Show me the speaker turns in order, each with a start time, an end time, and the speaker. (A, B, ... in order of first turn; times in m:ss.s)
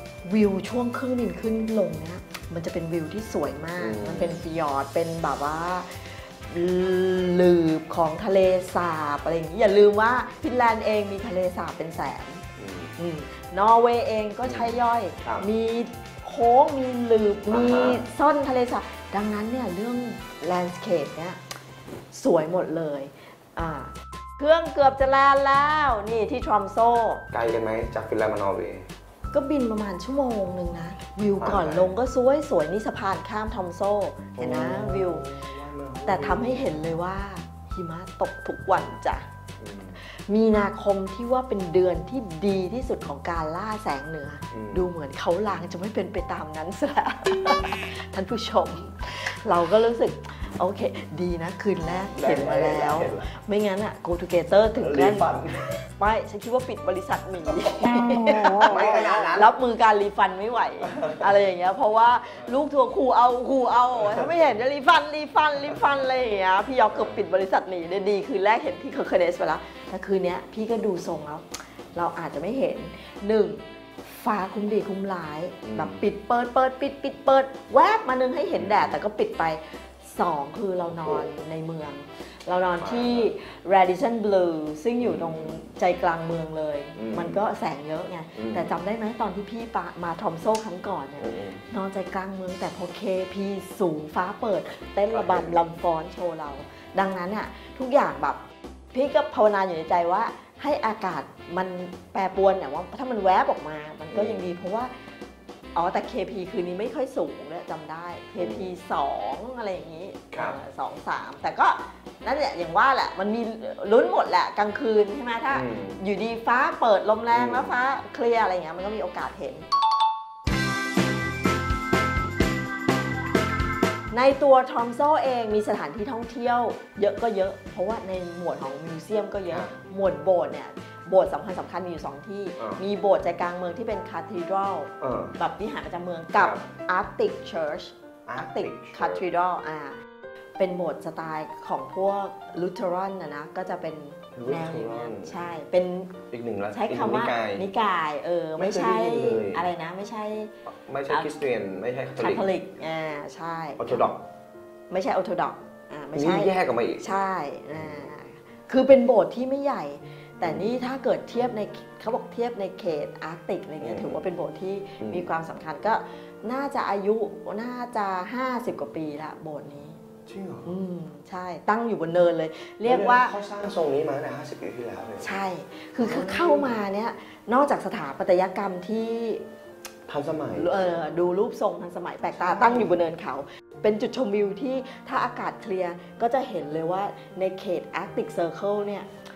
0:00.2-0:12.4 A
0:03.8-0:04.4 B
0:12.6-0:12.9 B
0:13.0-0:21.4 A
0:14.4-0:14.7 B
0:15.2-0:15.5 B
0:17.5-0:18.0 B
0:22.1-0:27.2 A
0:27.3-0:28.9 B
0:29.3-0:35.3 A
0:31.4-0:32.0 B
0:34.4-0:36.8 B
0:36.0-0:39.2 A
0:39.6-0:40.0 B
0:40.0-0:55.3 A
0:44.5-0:44.9 B
0:52.1-0:53.3 B
0:54.8-0:55.7 B
0:55.9-1:38.4 A
0:58.6-0:59.5 B
1:00.9-1:01.2 B
1:06.9-1:07.2 B
1:15.6-1:16.0 B
1:18.5-1:18.9 B
1:21.0-1:21.3 B
1:22.8-1:23.3 B
1:25.0-1:25.6 B
1:27.0-1:27.4 B
1:28.4-1:28.7 B
1:31.2-1:31.6 B
1:35.1-1:35.6 B
1:38.9-1:44.9 A
1:44.1-1:44.5 B
1:45.7-1:59.6 A
1:48.4-1:48.7 B
1:50.3-1:50.6 B
1:55.5-1:56.0 B
1:57.3-1:57.7 B
2:04.1-2:20.0 A
2:12.6-2:12.8 B
2:15.0-2:15.3 B
2:16.4-2:16.6 B
2:18.2-2:19.2 B
2:20.6-2:26.2 A
2:24.4-2:25.3 B
2:26.3-2:27.7 B
2:26.7-2:30.5 A
2:28.6-2:29.6 B
2:30.7-2:32.5 B
2:32.2-2:34.1 A
2:33.8-2:34.2 B
2:34.9-2:50.0 A
2:36.1-2:37.0 B
2:40.4-2:40.7 B
2:43.8-2:44.2 B
2:45.0-2:45.2 B
2:50.3-2:50.7 B
2:50.6-2:53.4 A
2:52.8-2:55.3 B
2:55.2-2:59.4 A
2:56.0-2:56.8 B
3:00.1-3:00.7 B
3:00.5-3:09.1 A
3:02.3-3:03.0 B